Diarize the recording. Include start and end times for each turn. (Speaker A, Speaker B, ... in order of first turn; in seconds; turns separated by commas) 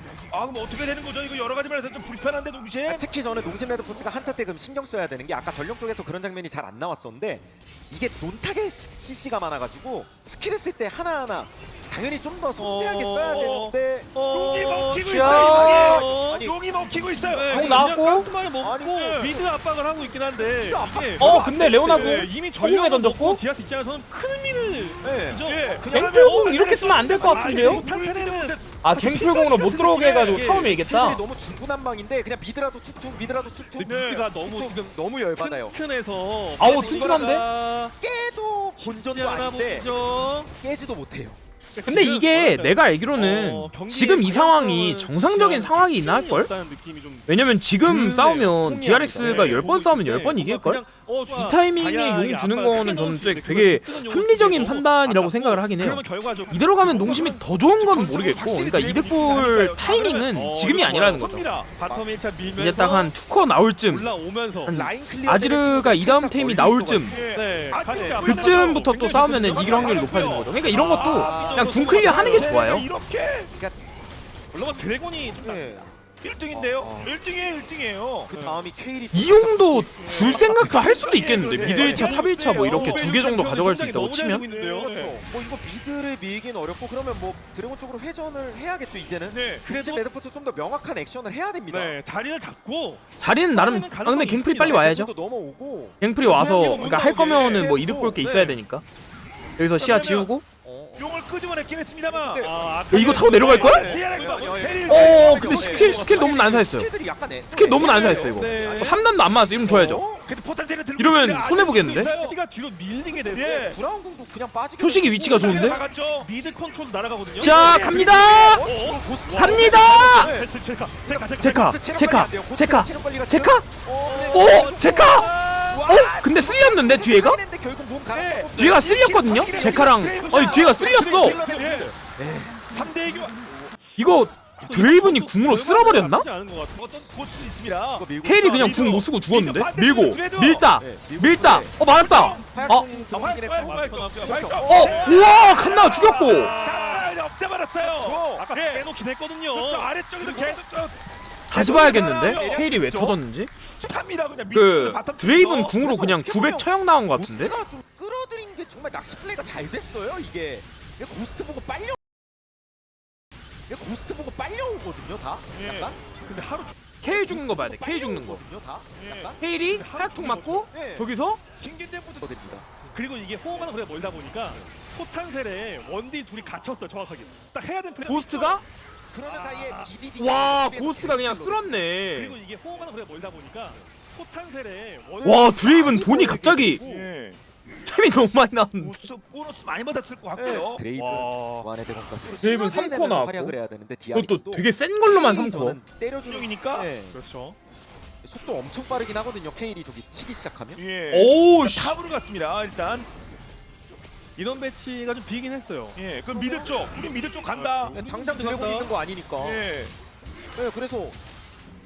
Speaker A: 0.3-3.1, Speaker B: 2.9-14.1, Speaker C: 12.6-16.5, Speaker A: 13.3-13.7, Speaker A: 14.3-17.6, Speaker D: 15.0-16.1, Speaker B: 15.3-17.1, Speaker C: 17.2-30.8, Speaker D: 17.5-18.3, Speaker B: 18.6-19.4, Speaker B: 20.4-22.1, Speaker D: 21.2-23.4, Speaker B: 25.0-25.4, Speaker A: 25.4-29.2, Speaker D: 25.9-27.8, Speaker D: 28.8-31.2, Speaker B: 30.6-35.8, Speaker C: 33.8-34.8, Speaker A: 33.8-34.2, Speaker C: 35.4-37.9, Speaker D: 36.6-37.4, Speaker B: 36.6-37.3, Speaker B: 38.0-39.9, Speaker C: 38.8-40.5, Speaker B: 40.5-41.4, Speaker C: 41.8-47.3, Speaker D: 41.8-46.5, Speaker D: 47.3-61.5, Speaker C: 47.8-56.7, Speaker B: 49.1-49.6, Speaker A: 49.2-49.6, Speaker A: 56.8-61.7, Speaker C: 60.3-63.1, Speaker D: 62.6-64.1, Speaker C: 63.9-64.8, Speaker D: 64.7-67.2, Speaker B: 64.7-67.3, Speaker A: 67.0-73.5, Speaker C: 67.2-72.5, Speaker D: 68.2-72.9, Speaker B: 71.0-71.9, Speaker B: 73.5-73.8, Speaker C: 74.5-75.8, Speaker B: 74.5-76.0, Speaker A: 76.2-78.3, Speaker B: 76.5-77.2, Speaker B: 78.2-80.7, Speaker C: 78.3-78.6, Speaker D: 79.1-84.4, Speaker C: 80.0-80.5, Speaker A: 80.1-83.2, Speaker C: 81.5-85.0, Speaker B: 81.6-82.2, Speaker A: 84.5-85.2, Speaker B: 84.5-92.0, Speaker A: 89.3-89.7, Speaker C: 89.6-90.0, Speaker C: 91.7-94.9, Speaker D: 93.2-95.1, Speaker B: 94.7-96.0, Speaker D: 96.0-98.8, Speaker C: 96.2-98.6, Speaker A: 96.2-97.7, Speaker B: 97.3-98.2, Speaker D: 99.6-100.4, Speaker A: 99.8-100.3, Speaker B: 100.6-101.1, Speaker A: 101.0-106.0, Speaker B: 102.1-102.6, Speaker C: 102.4-106.3, Speaker D: 102.9-103.9, Speaker B: 103.7-110.2, Speaker D: 104.9-106.9, Speaker D: 107.5-110.0, Speaker A: 107.8-108.3, Speaker C: 108.2-109.0, Speaker A: 110.2-112.3, Speaker D: 111.0-112.1, Speaker C: 111.7-113.7, Speaker A: 113.3-113.8, Speaker B: 113.3-115.8, Speaker D: 114.8-115.8, Speaker A: 115.3-116.3, Speaker C: 115.7-117.8, Speaker D: 117.4-118.7, Speaker A: 117.4-119.0, Speaker B: 117.5-120.5, Speaker C: 118.6-121.8, Speaker D: 119.3-120.3, Speaker D: 121.4-123.7, Speaker B: 121.4-125.0, Speaker C: 124.0-125.8, Speaker D: 124.3-125.3, Speaker A: 125.7-126.1, Speaker B: 125.8-132.8, Speaker D: 125.9-127.4, Speaker A: 128.1-131.9, Speaker D: 128.6-131.4, Speaker A: 132.7-133.7, Speaker D: 134.0-136.3, Speaker C: 134.6-136.9, Speaker A: 136.8-140.7, Speaker B: 137.9-138.9, Speaker D: 138.2-142.9, Speaker B: 140.8-145.3, Speaker A: 141.8-148.8, Speaker C: 143.5-147.1, Speaker D: 144.7-146.6, Speaker B: 147.8-148.4, Speaker C: 148.3-150.5, Speaker A: 149.5-153.2, Speaker B: 150.2-150.6, Speaker D: 151.5-153.5, Speaker B: 152.1-153.1, Speaker A: 153.8-155.8, Speaker D: 154.5-157.6, Speaker B: 155.7-162.0, Speaker B: 163.7-166.0, Speaker A: 165.5-165.9, Speaker C: 166.2-166.7, Speaker D: 167.0-168.4, Speaker B: 167.1-169.4, Speaker A: 169.0-169.3, Speaker D: 169.4-171.4, Speaker C: 169.6-170.7, Speaker B: 170.7-171.1, Speaker A: 171.6-172.6, Speaker B: 172.2-172.7, Speaker C: 172.9-178.6, Speaker D: 178.0-178.6, Speaker B: 179.1-181.8, Speaker C: 179.2-179.9, Speaker D: 180.2-182.3, Speaker C: 182.2-186.0, Speaker D: 185.2-186.8, Speaker B: 185.4-187.1, Speaker A: 186.8-187.4, Speaker D: 187.8-189.0, Speaker A: 188.8-190.8, Speaker B: 190.3-197.2, Speaker C: 190.9-191.7, Speaker D: 192.4-193.6, Speaker D: 194.1-195.8, Speaker A: 196.2-196.9, Speaker C: 197.1-197.6, Speaker B: 198.2-200.8, Speaker A: 200.8-203.1, Speaker D: 201.1-201.9, Speaker C: 204.4-206.0, Speaker A: 205.9-207.9, Speaker C: 207.5-208.9, Speaker B: 207.9-209.6, Speaker A: 209.4-209.9, Speaker B: 210.6-211.2